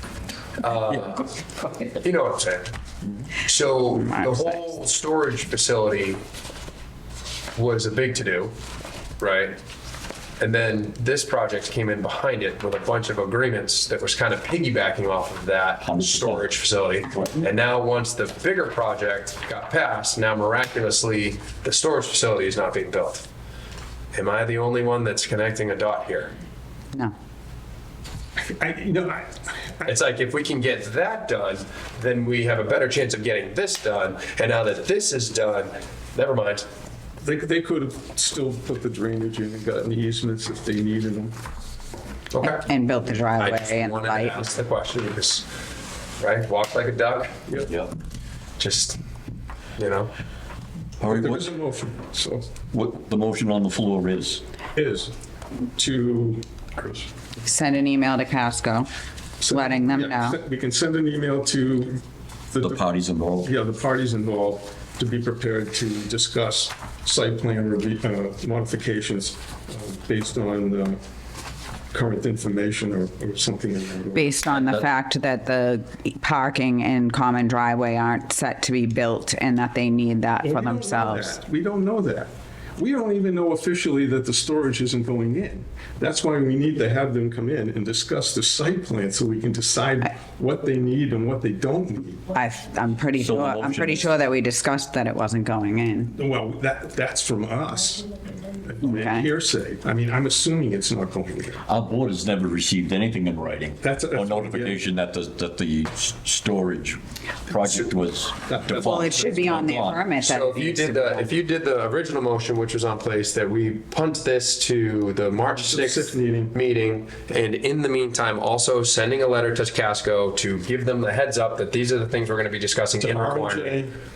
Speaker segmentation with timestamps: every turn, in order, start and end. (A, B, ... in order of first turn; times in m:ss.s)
0:00.6-0:02.7 A
0:03.4-0:06.2 A
0:03.9-0:04.7 B
0:07.5-0:08.5 A
0:09.2-0:09.6 A
0:10.4-0:23.2 A
0:15.8-0:16.4 C
0:24.1-0:26.3 A
0:28.4-0:29.9 D
0:29.8-0:36.6 A
0:37.2-0:41.4 D
0:42.3-0:42.7 A
0:42.4-0:44.4 B
0:43.4-0:45.4 A
0:46.2-0:47.4 A
0:48.6-0:49.0 A
0:49.8-0:50.1 A
0:51.0-0:52.5 D
0:51.0-0:51.5 C
0:52.7-0:54.4 C
0:54.7-0:55.1 D
0:55.8-0:57.0 D
0:57.4-0:58.9 B
0:59.4-1:00.4 B
0:59.4-1:02.8 D
1:02.6-1:03.5 C
1:03.4-1:11.0 D
1:11.9-1:14.4 D
1:14.1-1:21.4 B
1:14.5-1:14.9 C
1:20.4-1:32.2 D
1:32.3-1:36.1 B
1:33.2-1:34.2 C
1:36.1-1:38.1 D
1:38.6-1:41.6 D
1:38.8-1:39.3 B
1:41.6-1:50.1 C
1:43.8-1:44.8 D
1:48.4-1:49.6 D
1:48.8-1:51.4 B
1:50.2-2:03.8 A
1:55.5-1:56.5 D
2:03.0-2:03.9 D